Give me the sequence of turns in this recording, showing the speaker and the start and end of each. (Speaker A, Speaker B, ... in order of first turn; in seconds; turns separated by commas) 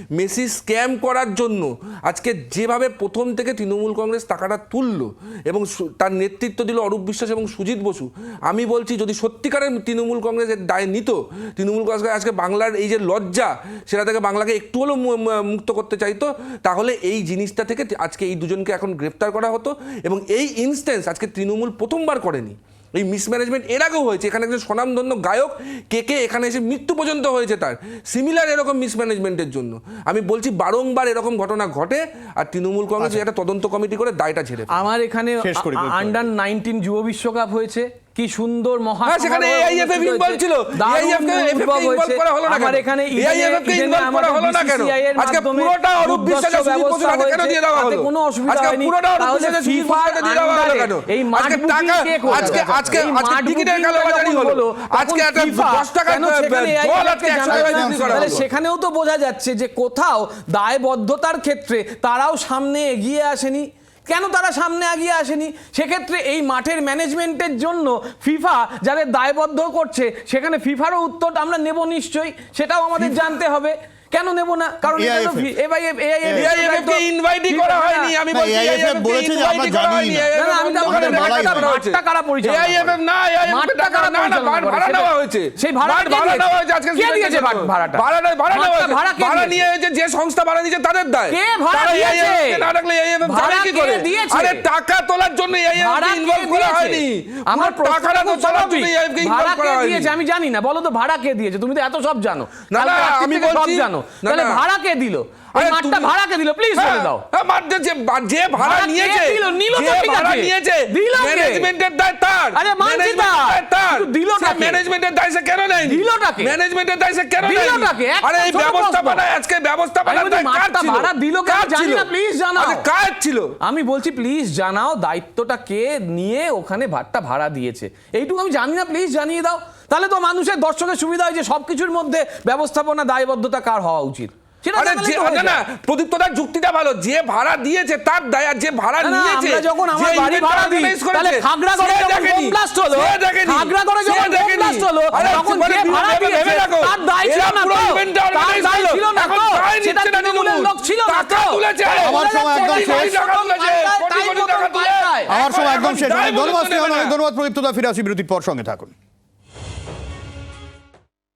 Speaker A: 0.1-34.7, Speaker B: 33.0-33.2, Speaker C: 34.7-78.1, Speaker B: 35.4-36.3, Speaker A: 39.0-58.4, Speaker B: 52.3-53.0, Speaker B: 57.5-58.5, Speaker B: 74.9-75.5, Speaker B: 76.2-76.5, Speaker A: 76.3-100.1, Speaker B: 78.3-80.3, Speaker C: 80.3-82.9, Speaker B: 80.8-81.7, Speaker C: 83.5-89.6, Speaker C: 91.3-92.7, Speaker C: 93.2-94.6, Speaker C: 95.8-107.2, Speaker A: 102.7-104.6, Speaker A: 105.5-106.1, Speaker A: 106.7-123.5, Speaker C: 108.6-111.7, Speaker C: 112.5-114.8, Speaker C: 115.8-116.5, Speaker C: 117.4-119.2, Speaker C: 120.0-122.8, Speaker C: 123.6-135.6, Speaker A: 134.8-157.1, Speaker C: 139.0-155.3, Speaker B: 151.9-153.2, Speaker B: 155.3-158.9